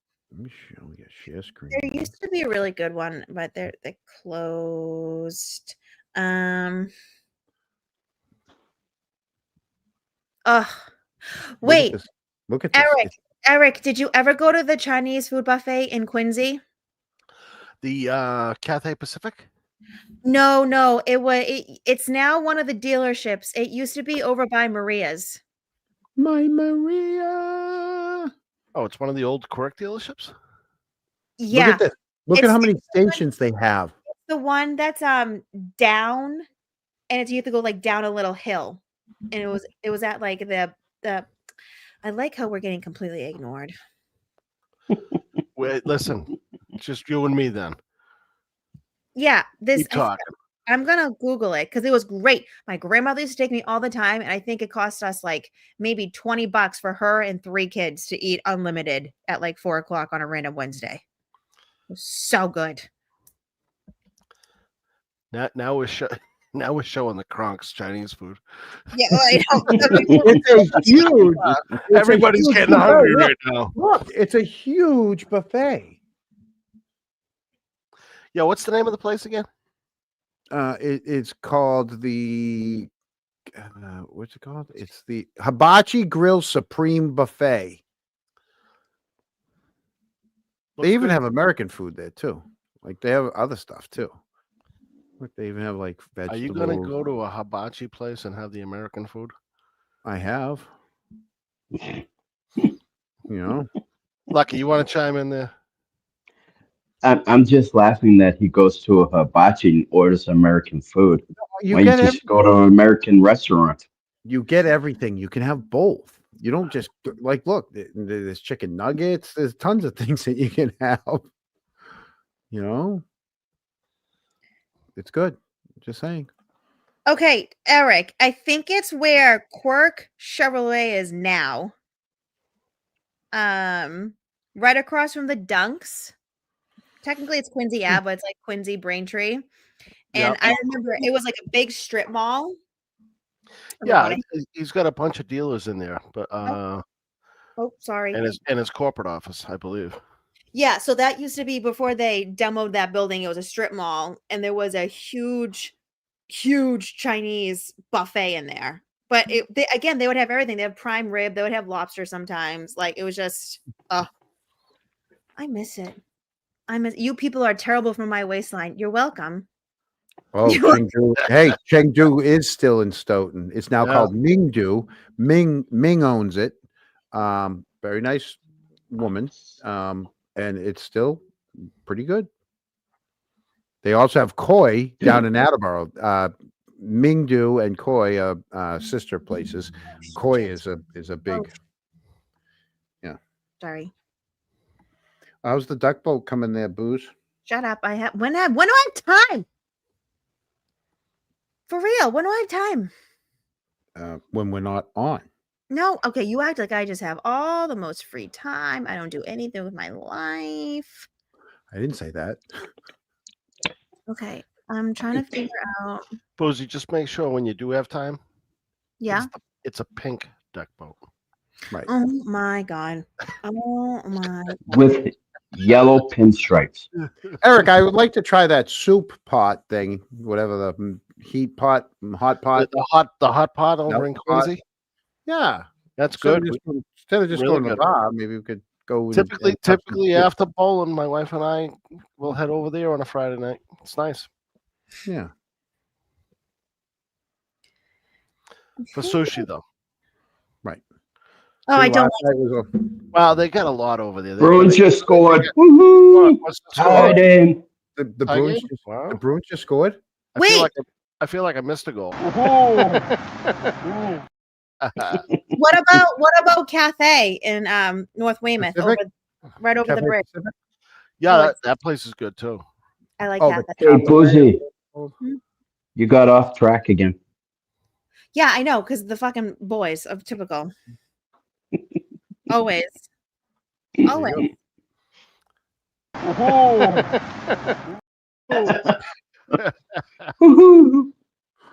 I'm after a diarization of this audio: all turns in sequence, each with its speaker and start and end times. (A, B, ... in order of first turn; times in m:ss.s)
0:00.3-0:02.0 A
0:01.7-0:06.9 B
0:10.5-0:10.9 B
0:11.6-0:12.0 B
0:11.6-0:13.1 A
0:12.7-0:16.6 B
0:17.8-0:19.5 C
0:20.2-0:25.4 B
0:26.2-0:28.3 A
0:28.8-0:30.3 C
0:31.4-0:33.2 B
0:31.5-0:33.9 A
0:34.2-0:36.4 B
0:37.1-0:41.3 B
0:42.0-0:43.7 B
0:45.6-0:47.8 C
0:49.2-0:50.2 B
0:49.8-0:50.2 C
0:50.7-1:01.0 B
1:01.9-1:02.9 B
1:05.3-1:08.4 C
1:08.9-1:11.6 B
1:09.8-1:10.1 C
1:10.2-1:16.0 A
1:11.9-1:13.7 C
1:18.3-1:19.5 C
1:20.5-1:22.9 A
1:23.5-1:27.8 A
1:30.8-1:31.2 C
1:30.8-1:34.2 A
1:35.2-1:37.0 A
1:36.3-1:39.3 C
1:40.0-1:40.7 A
1:43.3-1:43.7 A
1:44.3-1:45.5 C
1:47.0-1:53.9 D
1:51.6-1:52.2 A
1:54.2-2:01.3 A
2:02.5-2:03.0 A
2:05.0-2:06.3 A
2:07.1-2:11.7 B
2:13.3-2:16.1 B
2:17.0-2:19.4 B
2:20.1-2:22.6 B
2:20.1-2:20.6 C
2:23.8-2:24.2 B
2:23.8-2:26.8 C
2:27.6-2:28.3 B
2:28.1-2:30.0 C
2:30.5-2:35.8 B
2:36.3-2:44.1 B
2:45.4-2:46.0 B
2:46.7-2:49.5 B
2:50.3-2:56.6 A
2:50.5-2:50.8 B
2:53.8-2:54.1 C
2:57.1-2:58.4 A
2:58.9-3:01.2 A
3:01.8-3:02.3 A
3:03.8-3:11.5 A
3:13.6-3:13.9 B
3:15.4-3:17.1 A
3:17.5-3:19.5 B
3:21.7-3:22.9 B
3:24.0-3:25.3 A
3:25.7-3:31.1 B
3:31.7-3:32.4 A
3:34.1-3:36.0 B
3:36.4-3:38.2 C
3:39.0-3:39.3 B
3:39.1-3:41.0 C
3:41.9-3:44.9 B
3:44.7-3:46.9 D
3:47.4-3:52.7 A
3:52.6-3:54.6 C
3:53.9-3:54.5 A
3:55.3-3:55.7 A
3:56.0-3:56.6 C
3:56.2-4:00.3 A
3:57.3-3:57.8 C
3:59.1-4:04.3 C
4:05.0-4:05.3 A
4:08.9-4:09.6 C
4:11.7-4:12.2 B
4:11.7-4:12.7 A
4:13.1-4:15.5 C
4:14.4-4:17.6 D
4:16.1-4:17.2 C
4:18.0-4:20.0 A
4:18.3-4:19.2 C
4:20.4-4:23.1 C
4:20.4-4:20.7 B
4:24.8-4:25.2 C
4:25.1-4:25.4 D
4:25.5-4:29.1 B
4:28.6-4:29.0 A
4:29.6-4:30.2 B
4:29.8-4:30.5 A
4:31.2-4:32.6 C
4:31.3-4:31.6 B
4:33.2-4:34.3 B
4:33.4-4:35.1 A
4:33.8-4:34.6 D
4:36.0-4:37.2 D
4:38.3-4:40.7 B
4:42.5-4:43.1 B
4:44.0-4:44.5 B
4:44.1-4:44.4 A
4:46.3-4:47.1 C
4:48.5-4:48.9 C
4:48.5-4:49.0 D
4:49.5-4:50.3 C
4:50.4-4:51.1 D